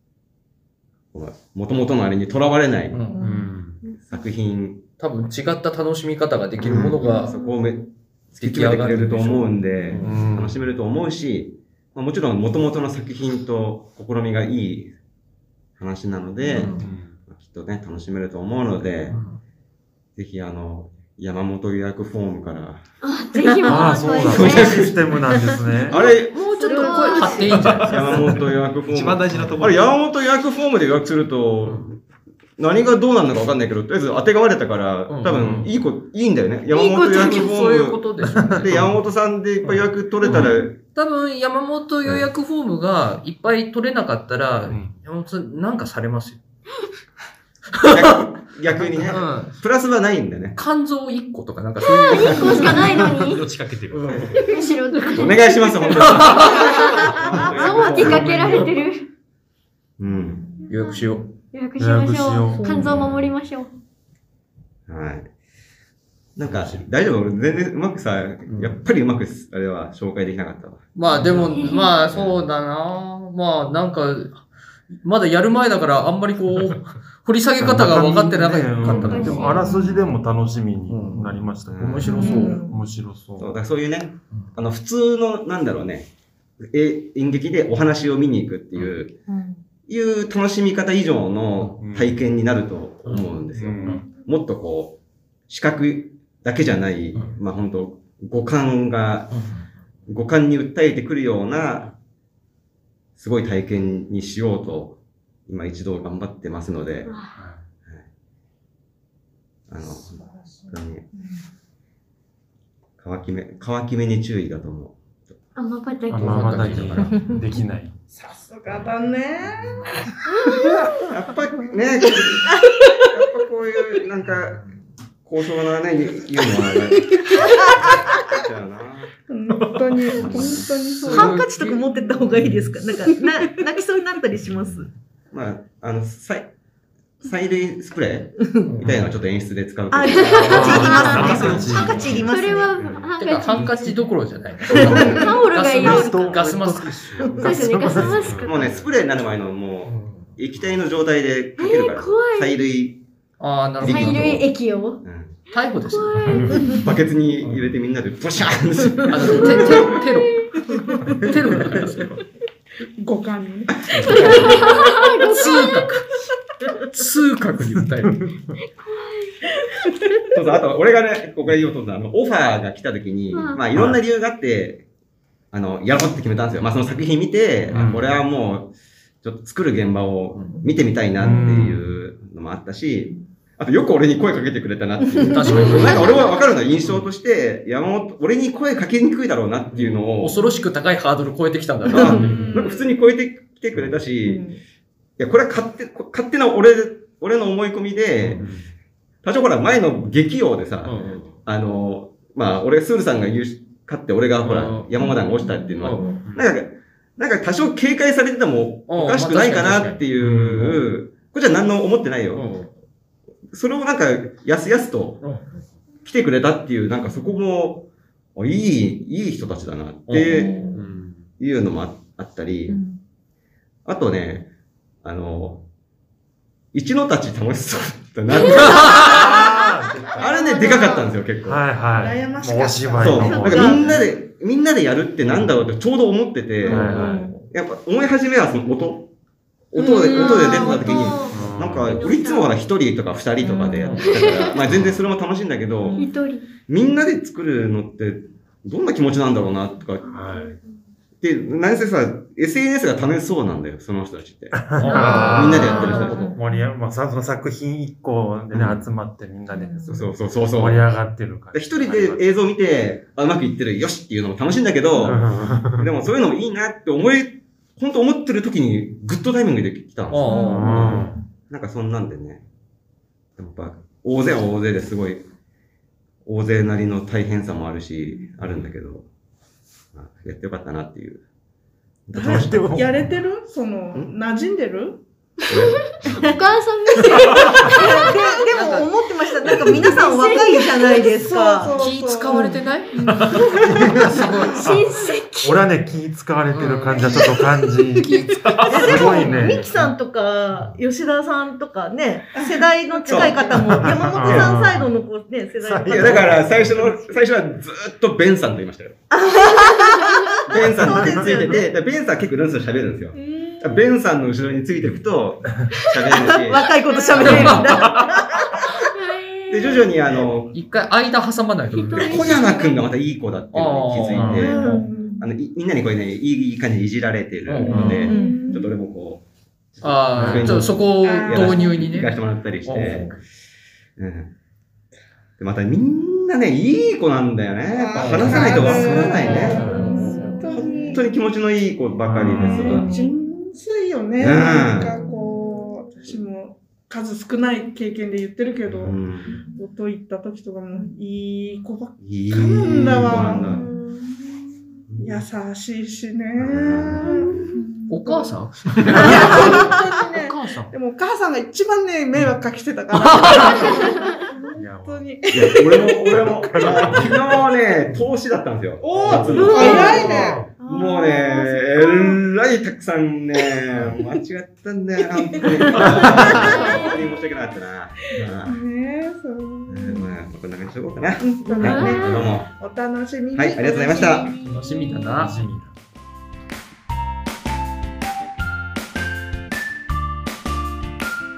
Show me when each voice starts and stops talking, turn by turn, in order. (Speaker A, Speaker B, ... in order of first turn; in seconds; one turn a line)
Speaker A: 1.1-3.1
Speaker B: 2.9-3.2
Speaker C: 3.1-3.5
Speaker D: 3.2-3.8
Speaker A: 4.0-4.8
Speaker B: 5.0-7.3
Speaker A: 6.6-14.9
Speaker E: 7.0-7.5
Speaker B: 8.4-10.2
Speaker D: 10.0-10.6
Speaker A: 15.8-19.2
Speaker B: 16.5-16.9
Speaker D: 16.8-17.2
Speaker B: 19.1-19.4
Speaker A: 20.1-22.8
Speaker E: 23.0-25.0
Speaker C: 23.4-23.9
Speaker D: 23.6-26.0
Speaker A: 24.0-25.2
Speaker C: 25.3-25.6
Speaker B: 25.9-28.5
Speaker A: 25.9-26.5
Speaker E: 25.9-27.5
Speaker C: 26.6-27.9
Speaker F: 27.5-30.0
Speaker A: 27.9-32.0
Speaker A: 32.6-38.0
Speaker B: 35.1-35.6
Speaker D: 35.3-35.7
Speaker E: 36.7-37.6
Speaker B: 37.0-38.8
Speaker D: 38.4-39.0
Speaker A: 38.5-40.8
Speaker B: 39.6-46.4
Speaker D: 40.2-40.6
Speaker D: 44.7-44.9
Speaker B: 47.7-48.0
Speaker A: 47.9-50.6
Speaker B: 49.1-49.5
Speaker B: 50.5-52.7
Speaker E: 51.8-53.4
Speaker A: 52.2-52.8
Speaker F: 52.6-54.4
Speaker B: 53.9-55.3
Speaker E: 54.3-59.1
Speaker A: 55.1-58.7
Speaker B: 56.0-56.6
Speaker C: 57.1-57.5
Speaker B: 57.5-58.7
Speaker A: 60.0-60.5
Speaker C: 60.1-60.6
Speaker E: 60.6-63.7
Speaker B: 60.7-61.3
Speaker D: 61.8-63.3
Speaker C: 62.5-62.9
Speaker A: 64.9-65.3
Speaker A: 66.3-72.4
Speaker D: 66.4-66.8
Speaker B: 68.5-68.8
Speaker B: 70.9-74.4
Speaker E: 71.5-71.9
Speaker B: 75.0-79.7
Speaker D: 77.6-83.5
Speaker E: 78.8-79.9
Speaker C: 79.0-80.0
Speaker B: 80.9-82.6
Speaker A: 81.7-82.3
Speaker C: 82.0-82.8
Speaker G: 82.1-82.6
Speaker A: 83.4-86.1
Speaker A: 86.6-89.2
Speaker C: 89.3-89.6
Speaker A: 89.9-99.4
Speaker D: 91.6-92.3
Speaker D: 93.5-94.0
Speaker B: 97.1-97.4
Speaker B: 99.3-99.7
Speaker A: 100.1-101.9
Speaker A: 103.2-107.1
Speaker E: 107.0-107.3
Speaker D: 107.3-107.6
Speaker A: 109.7-111.1
Speaker C: 110.0-111.4
Speaker A: 113.0-115.3
Speaker E: 115.5-116.9
Speaker D: 116.1-117.9
Speaker B: 116.2-117.3
Speaker G: 118.1-120.9
Speaker A: 121.0-122.5
Speaker C: 122.4-122.9
Speaker A: 123.1-124.7
Speaker B: 124.2-124.9
Speaker A: 125.2-129.1
Speaker C: 127.2-128.2
Speaker G: 129.3-131.4
Speaker F: 129.5-129.9
Speaker A: 130.1-130.8
Speaker B: 130.3-131.8
Speaker C: 131.1-134.9
Speaker G: 131.9-132.3
Speaker B: 132.3-132.7
Speaker A: 135.3-136.5
Speaker A: 137.2-141.7
Speaker B: 138.7-138.9
Speaker D: 138.8-139.1
Speaker C: 139.9-142.8
Speaker E: 140.0-144.0
Speaker D: 140.4-143.9
Speaker F: 141.1-142.0
Speaker B: 143.1-148.3
Speaker D: 144.7-148.9
Speaker C: 144.7-145.3
Speaker E: 144.8-146.5
Speaker A: 144.9-145.2
Speaker E: 147.4-148.8
Speaker A: 148.4-153.0
Speaker B: 149.8-150.4
Speaker E: 151.6-152.6
Speaker B: 153.4-154.5
Speaker A: 153.8-154.5
Speaker E: 153.8-155.0
Speaker A: 155.0-155.3
Speaker B: 155.5-156.7
Speaker E: 155.9-156.8
Speaker D: 156.3-156.7
Speaker A: 156.7-159.9
Speaker B: 157.4-157.8
Speaker B: 159.1-160.4
Speaker E: 159.9-160.5
Speaker G: 160.7-161.4
Speaker B: 161.2-162.2
Speaker G: 163.0-165.0
Speaker B: 164.1-166.1
Speaker E: 164.1-165.8
Speaker B: 166.8-168.2
Speaker D: 167.7-168.3
Speaker E: 168.7-169.4
Speaker A: 170.3-174.8
Speaker E: 173.3-173.6
Speaker D: 173.7-174.0
Speaker A: 175.5-190.4
Speaker D: 177.7-178.2
Speaker B: 180.3-180.6
Speaker D: 181.2-181.9
Speaker C: 185.1-186.1
Speaker B: 185.2-186.2
Speaker B: 189.7-192.5
Speaker C: 191.8-192.5
Speaker A: 191.9-194.5
Speaker G: 192.1-192.9
Speaker C: 194.2-194.6
Speaker A: 195.2-198.5
Speaker D: 198.2-198.7
Speaker A: 199.2-212.5
Speaker B: 200.8-201.3
Speaker B: 204.4-204.9
Speaker C: 205.0-206.2
Speaker B: 205.8-206.2
Speaker D: 206.2-206.5
Speaker B: 208.9-210.7
Speaker D: 210.2-210.8
Speaker B: 212.3-212.7
Speaker A: 213.5-215.2
Speaker B: 215.2-215.6
Speaker A: 216.0-220.5
Speaker B: 220.1-220.8
Speaker C: 220.3-220.8
Speaker D: 220.7-221.2
Speaker A: 221.4-222.8
Speaker C: 222.7-223.0
Speaker A: 223.8-224.5
Speaker A: 225.0-225.7
Speaker A: 226.7-229.3
Speaker E: 228.3-229.2
Speaker D: 228.9-230.3
Speaker A: 230.1-231.8
Speaker E: 230.2-231.0
Speaker C: 230.6-231.0
Speaker D: 231.4-234.0
Speaker G: 231.9-233.7
Speaker A: 233.0-239.1
Speaker C: 233.2-234.0
Speaker D: 235.3-235.6
Speaker C: 236.6-237.4
Speaker D: 236.7-237.3
Speaker B: 236.7-237.4
Speaker A: 239.7-246.1
Speaker C: 239.8-241.2
Speaker E: 239.9-242.5
Speaker D: 241.3-242.0
Speaker C: 243.4-244.1
Speaker E: 244.0-244.6
Speaker D: 244.7-245.0
Speaker C: 245.8-246.1
Speaker E: 245.9-246.5
Speaker A: 246.7-250.2
Speaker E: 250.0-250.7
Speaker D: 250.1-250.6
Speaker A: 251.2-254.7
Speaker D: 254.5-262.2
Speaker B: 254.8-256.2
Speaker C: 254.8-256.7
Speaker E: 255.2-256.1
Speaker A: 255.3-256.3
Speaker A: 258.5-258.8
Speaker C: 259.5-260.0
Speaker A: 259.9-260.9
Speaker A: 261.5-272.4
Speaker D: 265.0-265.9
Speaker B: 270.1-271.0
Speaker C: 270.2-271.2
Speaker D: 270.5-271.2
Speaker A: 273.4-275.3
Speaker A: 276.2-279.1
Speaker A: 279.9-281.2
Speaker A: 282.1-282.8
Speaker D: 282.1-283.1
Speaker G: 282.1-285.0
Speaker A: 285.5-286.3
Speaker E: 285.5-288.4
Speaker C: 286.1-286.4
Speaker C: 287.4-291.9
Speaker G: 287.6-288.6
Speaker B: 288.5-288.9
Speaker E: 289.5-291.1
Speaker G: 291.1-293.7
Speaker B: 291.7-292.9
Speaker F: 293.0-293.4
Speaker E: 293.3-295.6
Speaker D: 293.6-294.9
Speaker B: 293.9-294.7
Speaker D: 295.4-298.1
Speaker B: 296.5-297.2
Speaker B: 298.0-299.5
Speaker F: 298.4-298.9
Speaker C: 298.6-307.2
Speaker D: 298.7-299.9
Speaker G: 302.3-304.3
Speaker A: 303.1-303.5
Speaker D: 303.6-304.9
Speaker D: 305.6-306.8
Speaker A: 305.9-309.0
Speaker C: 309.1-311.7
Speaker A: 310.5-317.6
Speaker D: 310.9-311.3
Speaker G: 313.1-313.9
Speaker C: 316.1-318.8
Speaker E: 316.9-317.4
Speaker B: 317.1-317.9
Speaker E: 318.8-319.9
Speaker A: 319.5-320.5
Speaker B: 320.5-322.5
Speaker E: 321.9-322.8
Speaker A: 321.9-329.2
Speaker B: 323.5-324.8
Speaker D: 324.1-324.5
Speaker C: 324.3-325.2
Speaker G: 324.4-325.2
Speaker B: 327.4-328.2
Speaker G: 327.6-328.7
Speaker D: 327.7-328.1
Speaker C: 327.9-328.6
Speaker A: 329.8-333.2
Speaker B: 329.8-333.1
Speaker D: 330.1-330.7
Speaker G: 330.9-331.9
Speaker A: 334.0-334.3
Speaker A: 335.4-339.8
Speaker G: 337.7-341.1
Speaker B: 337.9-340.4
Speaker C: 339.6-341.0
Speaker A: 340.5-342.9
Speaker D: 342.0-342.9
Speaker G: 342.3-349.0
Speaker C: 342.6-343.1
Speaker A: 344.2-345.0
Speaker A: 348.8-349.3
Speaker G: 349.6-353.7
Speaker A: 352.0-353.6
Speaker E: 353.2-354.0
Speaker A: 354.9-355.3
Speaker G: 355.0-358.4
Speaker A: 356.4-357.5
Speaker E: 357.0-357.3
Speaker B: 357.9-360.7
Speaker G: 358.9-366.9
Speaker B: 362.9-363.7
Speaker E: 363.4-363.9
Speaker D: 364.6-365.1
Speaker A: 365.3-378.6
Speaker D: 366.1-367.3
Speaker G: 368.8-372.2
Speaker E: 369.3-370.1
Speaker D: 370.0-370.5
Speaker G: 375.2-377.1
Speaker D: 376.0-376.3
Speaker E: 376.4-376.9
Speaker G: 378.1-380.1
Speaker A: 379.7-382.5
Speaker G: 381.2-383.7
Speaker E: 381.5-382.4
Speaker A: 383.3-384.3
Speaker E: 383.6-385.1
Speaker B: 384.4-385.6
Speaker D: 385.2-385.7